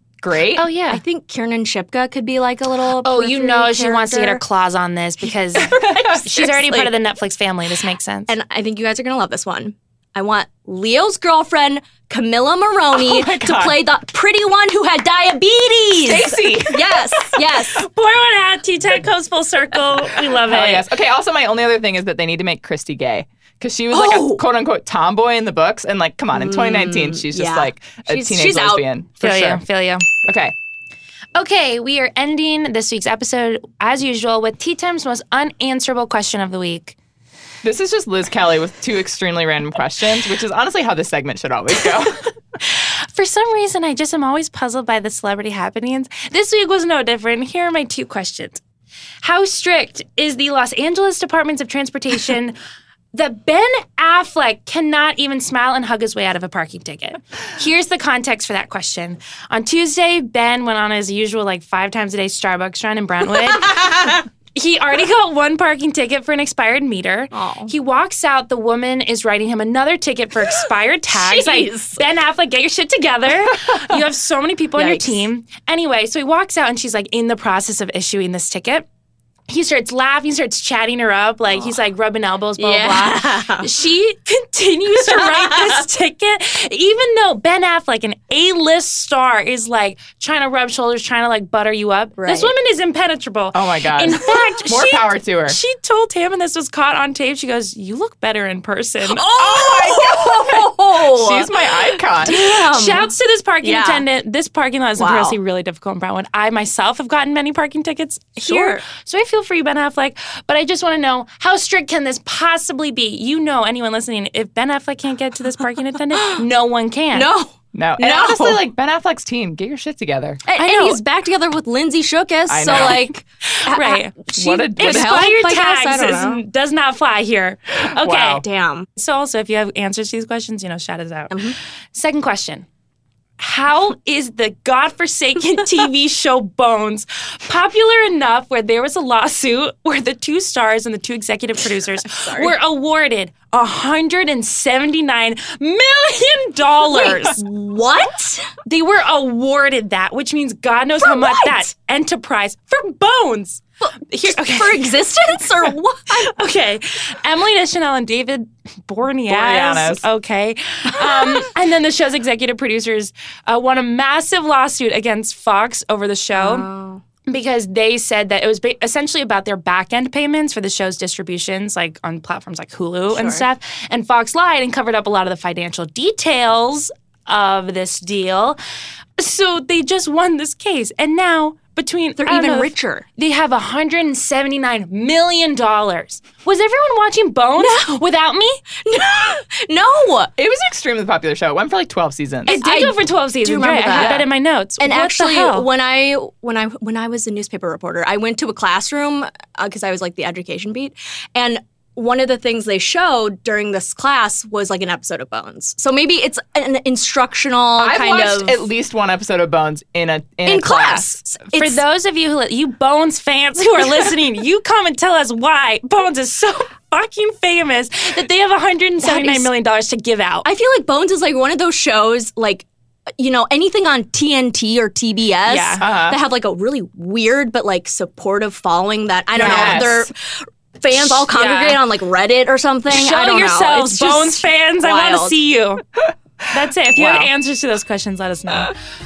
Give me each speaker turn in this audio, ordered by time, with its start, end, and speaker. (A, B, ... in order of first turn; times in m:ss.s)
0:00.2-0:00.6 A
0:00.6-0:01.0 B
0:00.9-0:04.4 C
0:03.0-0:08.3 B
0:05.6-0:06.9 C
0:05.6-0:06.2 A
0:08.3-0:17.8 C
0:12.9-0:13.8 A
0:16.0-0:17.3 A
0:17.7-0:20.9 B
0:20.3-0:29.6 A
0:23.9-0:24.4 C
0:26.3-0:28.8 C
0:29.2-0:30.1 B
0:30.2-0:30.5 A
0:31.4-0:37.0 B
0:37.6-0:42.2 A
0:42.6-0:48.6 B
0:49.2-0:52.6 B
0:53.1-1:18.8 B
1:07.3-1:07.7 C
1:11.1-1:12.0 C
1:14.8-1:15.2 C
1:19.5-1:39.3 B
1:22.6-1:23.7 C
1:25.1-1:25.8 C
1:32.2-1:32.5 C
1:33.5-1:35.6 A
1:39.2-1:43.1 C
1:39.3-1:42.4 A
1:42.3-1:57.3 B
1:43.6-1:44.0 C
1:45.0-1:45.4 C
1:48.4-1:48.8 C
1:56.2-1:56.4 C
1:57.1-1:58.6 C
1:57.7-2:01.0 A
2:00.5-2:06.4 C
2:02.5-2:03.2 A
2:03.5-2:08.4 B
2:04.4-2:05.4 A
2:08.0-2:08.4 A
2:08.4-2:08.9 C
2:09.0-2:12.7 B
2:13.4-2:27.4 B
2:22.1-2:22.5 C
2:26.9-2:28.6 C
2:28.6-2:46.7 B
2:31.0-2:31.6 C
2:34.2-2:36.3 C
2:39.3-2:40.0 A
2:41.0-2:41.5 C
2:46.4-2:47.0 C
2:47.3-2:58.6 B
2:53.1-2:53.4 C
2:59.2-3:08.6 B
3:02.2-3:03.1 C
3:07.6-3:08.0 C
3:08.8-3:10.3 C
3:10.4-3:12.6 A
3:12.5-3:15.7 B
3:12.5-3:14.3 C
3:14.8-3:28.7 C
3:27.8-3:31.2 A
3:30.5-3:31.8 C
3:31.5-3:40.5 B
3:39.0-3:39.5 C
3:40.4-3:42.7 C
3:43.2-3:55.4 C
3:45.5-3:45.8 B
3:45.8-3:46.2 A
3:49.4-3:50.1 A
3:49.4-3:49.8 B
3:50.9-3:51.8 B
3:52.9-3:55.8 B
3:56.5-3:58.7 B
3:56.9-3:57.3 A